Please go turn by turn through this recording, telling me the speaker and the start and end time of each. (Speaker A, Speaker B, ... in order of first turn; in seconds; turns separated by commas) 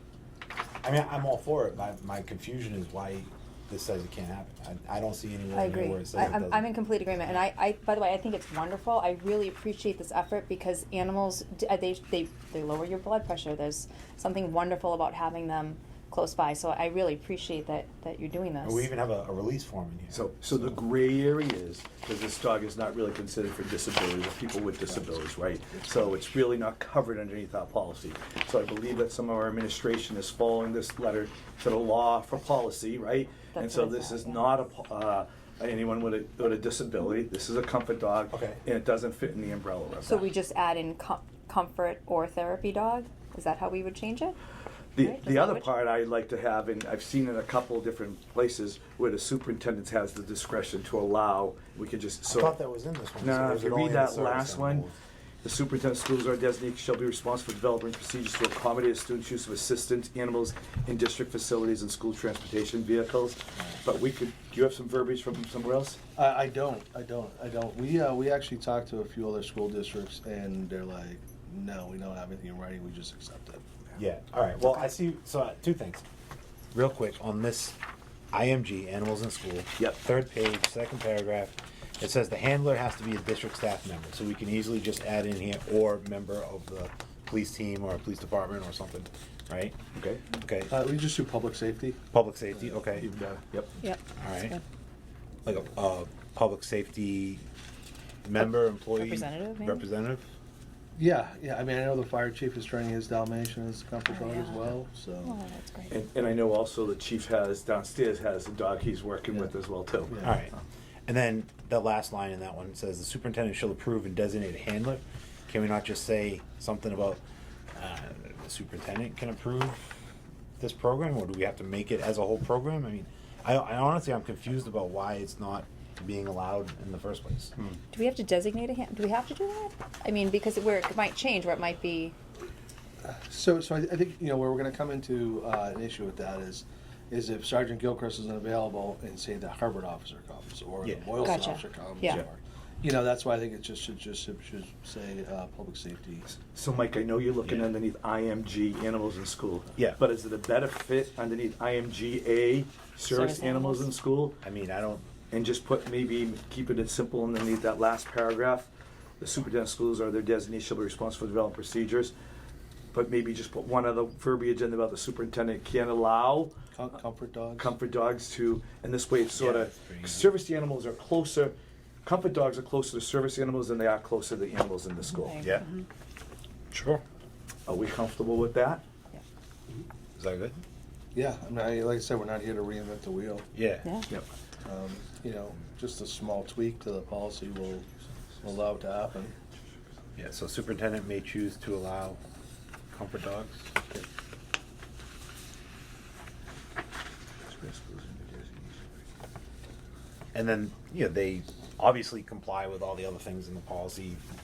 Speaker A: 0.8-7.3, Speaker B: 5.5-18.9, Speaker A: 18.6-20.8, Speaker C: 20.1-40.2, Speaker D: 24.9-26.1, Speaker B: 33.5-34.6, Speaker A: 38.3-38.6, Speaker B: 40.0-44.4, Speaker C: 44.9-52.6, Speaker B: 45.0-45.7, Speaker A: 52.3-54.9, Speaker C: 53.2-54.9, Speaker C: 55.4-66.0, Speaker D: 66.2-73.6, Speaker A: 73.9-76.0, Speaker A: 76.7-77.8, Speaker A: 78.3-89.8, Speaker C: 89.9-90.2, Speaker A: 90.3-90.7, Speaker D: 90.7-92.0, Speaker A: 92.1-93.1, Speaker C: 93.0-93.8, Speaker B: 93.8-94.6, Speaker A: 94.2-94.5, Speaker A: 95.4-97.4, Speaker A: 98.2-100.2, Speaker B: 98.4-99.8, Speaker D: 101.0-105.4, Speaker B: 104.1-104.6, Speaker B: 105.2-106.0, Speaker C: 105.9-110.2, Speaker D: 110.1-110.3, Speaker A: 110.2-110.5, Speaker A: 111.0-117.2, Speaker A: 117.7-120.0, Speaker A: 120.6-127.5, Speaker B: 127.9-132.1, Speaker D: 133.0-146.3, Speaker B: 141.2-142.2, Speaker C: 146.3-154.4, Speaker B: 153.1-153.9, Speaker A: 154.4-155.1, Speaker C: 155.3-162.1, Speaker C: 162.9-166.5, Speaker D: 166.7-167.7, Speaker C: 167.6-175.4, Speaker A: 169.3-170.3, Speaker B: 175.2-175.8, Speaker A: 175.4-175.7, Speaker A: 176.7-177.0, Speaker C: 177.7-178.8, Speaker A: 180.2-180.6, Speaker D: 181.1-183.5, Speaker A: 183.5-183.9, Speaker B: 183.8-184.1, Speaker D: 184.6-187.9, Speaker D: 188.4-189.3, Speaker A: 190.2-192.2, Speaker A: 192.9-193.7, Speaker C: 197.4-198.8, Speaker A: 200.3-204.2